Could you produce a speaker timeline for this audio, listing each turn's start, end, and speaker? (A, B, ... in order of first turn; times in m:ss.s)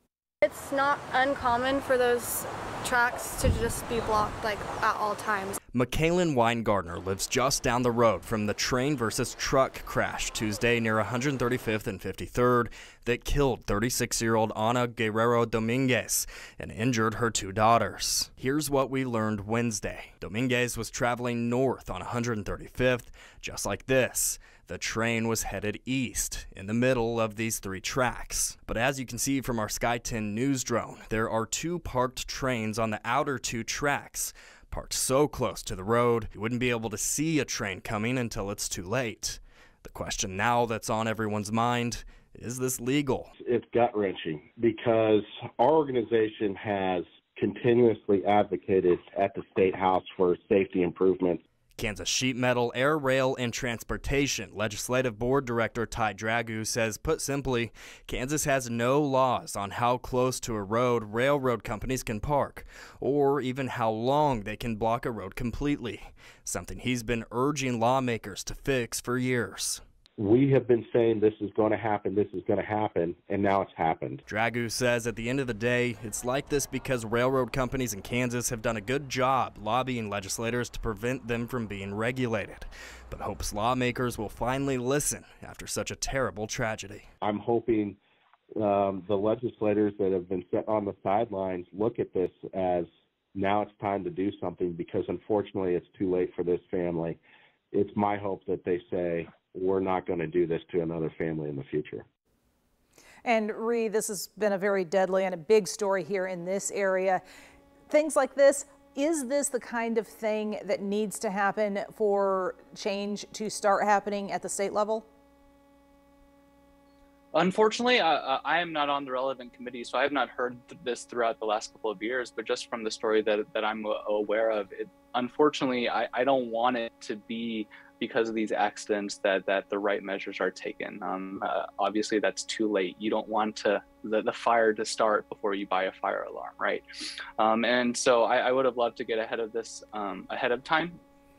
0:00.4-0:05.6 A
0:05.7-0:43.3 B
0:43.4-0:51.4 C
0:51.8-1:09.8 B
1:10.2-1:14.2 C
1:14.3-1:27.0 B
1:27.2-1:28.0 C
1:28.6-1:37.2 C
1:37.7-1:42.0 C
1:43.2-1:47.2 D
1:47.9-1:55.1 D
1:57.3-2:16.8 E
2:17.4-2:21.0 E